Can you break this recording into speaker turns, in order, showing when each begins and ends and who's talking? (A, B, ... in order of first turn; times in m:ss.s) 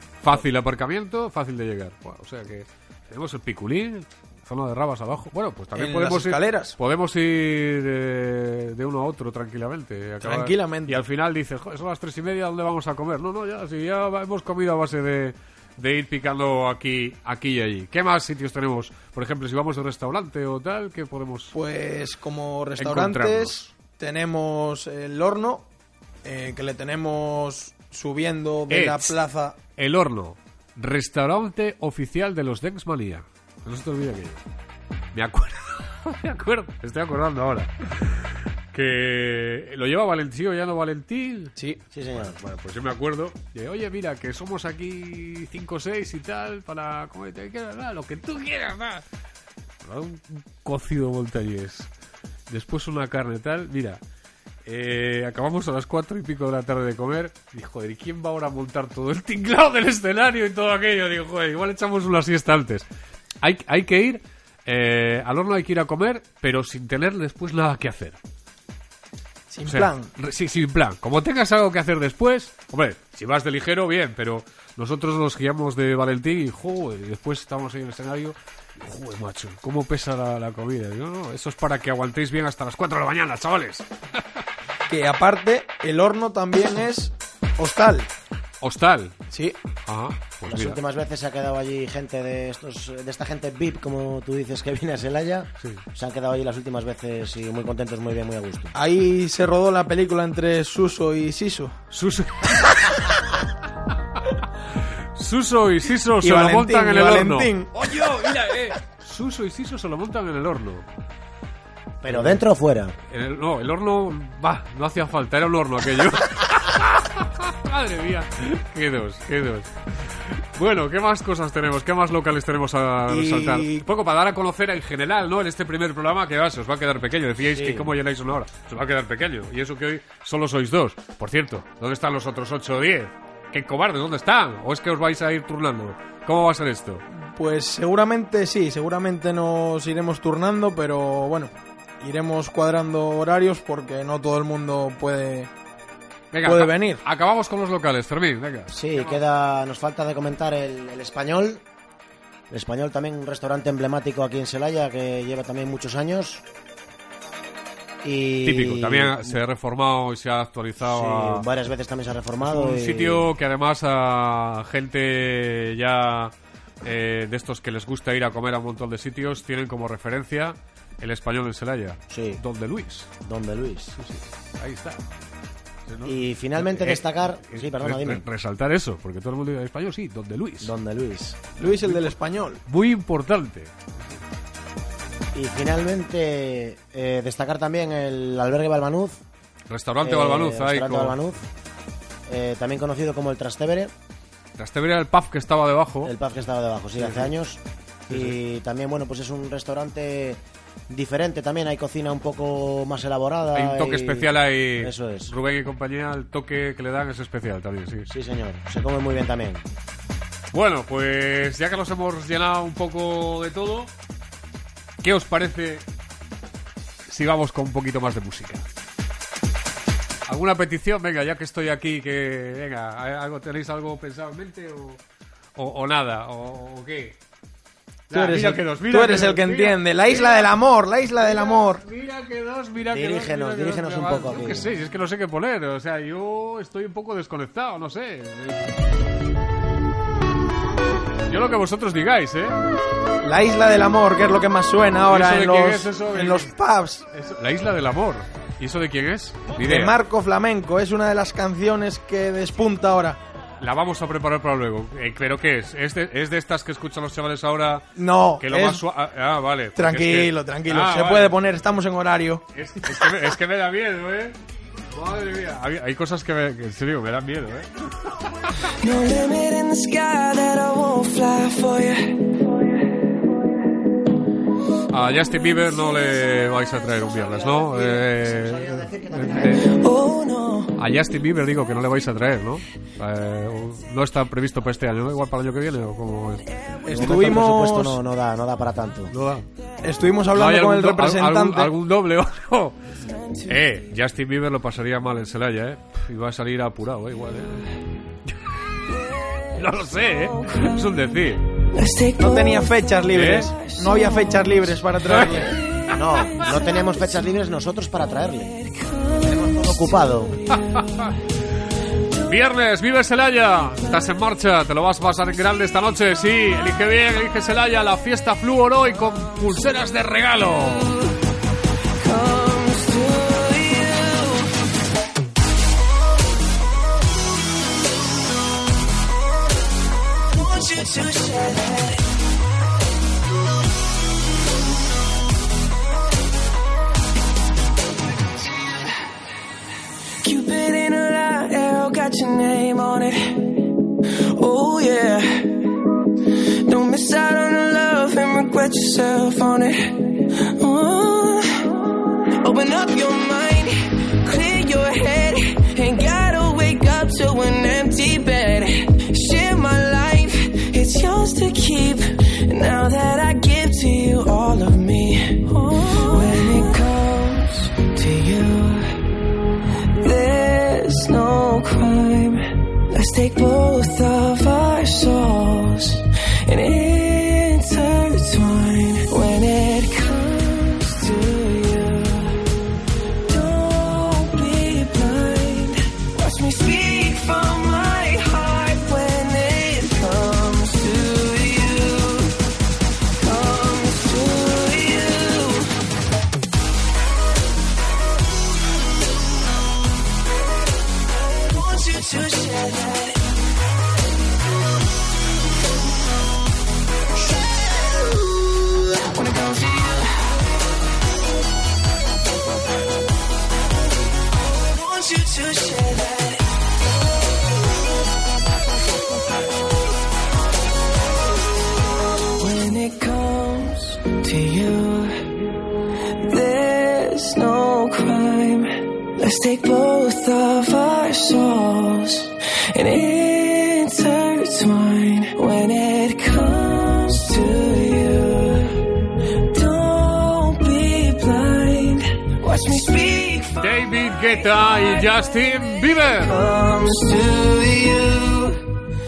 0:00.2-0:21.5 A
0:05.7-0:06.7 B
0:10.2-0:11.0 B
0:21.5-0:25.6 B
0:22.8-0:23.7 A
0:26.2-0:29.6 B
0:28.7-0:29.1 A
0:29.8-0:34.4 A
0:35.1-0:41.6 A
0:41.6-0:41.8 B
0:41.9-0:42.4 C
0:42.1-0:49.0 A
0:49.8-0:51.9 A
0:52.5-0:54.0 A
0:54.6-1:02.9 A
1:03.4-1:08.2 A
1:09.5-1:10.1 B
1:09.7-1:23.9 A
1:24.9-1:28.1 B
1:28.6-1:29.2 A
1:29.3-1:29.6 B
1:29.8-1:30.8 A
1:30.5-1:38.7 C
1:38.7-1:41.7 B
1:41.9-1:43.2 A
1:44.3-1:50.8 A
1:46.2-1:47.7 B
1:52.0-1:52.9 C
1:52.0-1:52.4 A
1:53.1-1:59.7 A
2:00.5-2:17.0 A
2:03.1-2:03.8 B
2:07.5-2:07.9 C
2:17.2-2:25.5 B
2:26.3-2:29.2 A
2:26.4-2:27.0 B
2:28.7-2:31.6 C
2:32.5-2:36.4 C
2:38.0-2:39.3 C
2:38.4-2:41.4 A
2:40.8-2:43.3 C
2:42.4-2:53.1 A
2:52.1-2:52.4 C
2:53.2-2:53.9 C
2:53.9-2:55.0 A
2:55.9-3:00.7 A
2:56.0-2:58.2 C
3:00.6-3:01.6 C
3:01.6-3:02.6 B
3:01.6-3:02.1 A
3:02.6-3:04.2 A
3:05.3-3:09.2 C
3:09.7-3:11.2 A
3:10.0-3:11.4 C
3:12.3-3:13.9 C
3:14.6-3:16.1 A
3:16.0-3:25.3 C
3:17.0-3:17.3 A
3:18.1-3:18.4 A
3:23.5-3:28.1 A
3:28.1-3:29.6 C
3:30.5-3:33.9 A
3:35.0-3:35.8 A
3:37.1-3:38.7 A
3:40.3-3:45.0 A
3:45.6-3:47.2 A
3:48.1-3:50.5 A
3:48.1-3:51.8 B
3:51.2-3:58.7 A
3:52.9-3:54.7 C
4:01.3-4:02.6 A
4:03.2-4:07.1 B
4:05.1-4:06.5 A
4:07.1-4:10.0 A
4:09.6-4:13.2 B
4:13.6-4:21.3 A
4:18.0-4:18.8 B
4:19.8-4:22.4 B
4:22.5-4:24.4 A
4:24.9-4:27.7 A
4:28.8-4:32.3 D
4:34.9-4:39.7 A
4:37.3-4:39.8 C
4:39.6-4:40.7 D
4:40.8-4:47.4 A
4:46.9-4:48.0 B
4:46.9-4:49.1 C
4:49.1-4:49.5 A
4:49.8-4:51.7 B
4:50.3-4:52.8 A
4:53.5-4:57.7 A
4:59.5-5:01.5 A
5:00.4-5:00.7 D
5:01.7-5:04.5 D
5:02.2-5:05.6 B
5:03.1-5:03.5 A
5:05.0-5:06.4 A
5:05.9-5:08.6 C
5:08.8-5:10.0 D
5:09.2-5:10.4 C
5:10.5-5:11.1 A
5:12.2-5:20.9 A
5:22.0-5:24.5 D
5:30.3-5:32.0 D
5:40.2-5:43.6 D
5:44.3-5:45.6 D
5:46.6-5:51.5 D
5:52.4-6:09.0 D
6:10.0-6:22.4 D
6:23.3-6:32.4 D
6:33.2-6:35.7 D
6:41.4-6:43.2 D
6:47.3-6:50.3 D
6:54.6-6:56.4 D
7:02.4-7:05.3 D
7:06.2-7:18.8 D
7:19.5-7:24.9 D
7:23.6-7:26.4 A
7:26.1-7:28.6 D